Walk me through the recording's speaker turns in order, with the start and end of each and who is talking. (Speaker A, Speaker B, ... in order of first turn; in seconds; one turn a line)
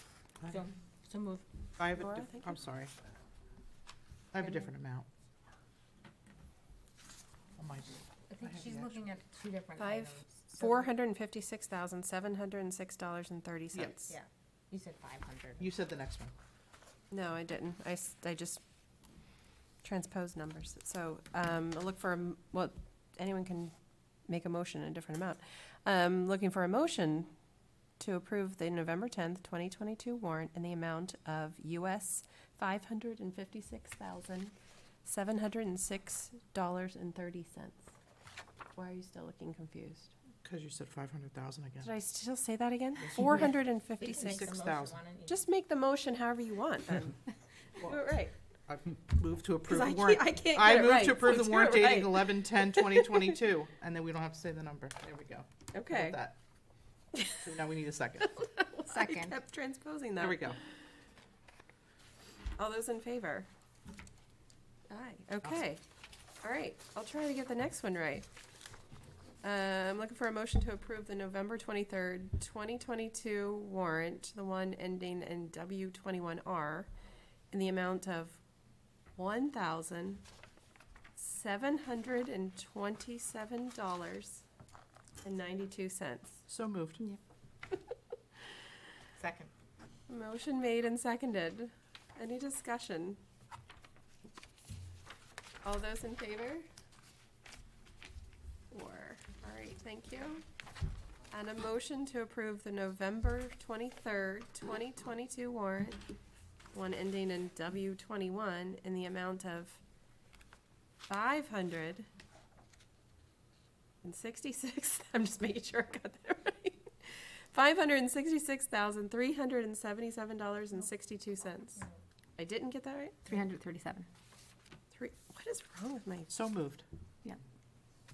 Speaker A: 0.5-1.4
Speaker B: 1.8-2.9
Speaker C: 1.9-2.5
Speaker B: 4.3-5.0
Speaker B: 7.6-8.9
Speaker A: 8.3-10.8
Speaker C: 9.8-14.1
Speaker A: 14.1-15.7
Speaker B: 15.6-16.3
Speaker C: 17.1-18.6
Speaker C: 19.8-27.3
Speaker C: 28.0-34.5
Speaker C: 35.0-37.9
Speaker C: 38.7-40.1
Speaker B: 40.4-41.9
Speaker C: 41.8-44.5
Speaker B: 43.1-43.5
Speaker A: 44.0-45.4
Speaker B: 44.1-45.0
Speaker C: 45.3-47.2
Speaker C: 47.8-48.3
Speaker B: 48.7-56.3
Speaker C: 49.6-53.1
Speaker C: 55.7-56.2
Speaker C: 57.1-57.5
Speaker B: 57.4-58.4
Speaker C: 58.3-60.6
Speaker A: 58.9-59.3
Speaker B: 60.2-60.6
Speaker C: 62.5-63.5
Speaker C: 64.9-65.8
Speaker C: 66.4-68.2
Speaker C: 69.4-76.9
Speaker C: 77.5-78.4
Speaker C: 79.1-80.2
Speaker C: 81.2-84.4
Speaker C: 85.2-86.4
Speaker B: 86.5-87.0
Speaker A: 89.2-89.5
Speaker C: 90.1-93.2
Speaker C: 95.6-96.7
Speaker C: 98.7-100.4
Speaker C: 101.3-106.0
Speaker C: 106.7-109.8
Speaker C: 111.1-112.1
Speaker C: 114.0-123.3
Speaker A: 123.2-124.1
Speaker C: 124.9-126.4
Speaker B: 126.3-126.8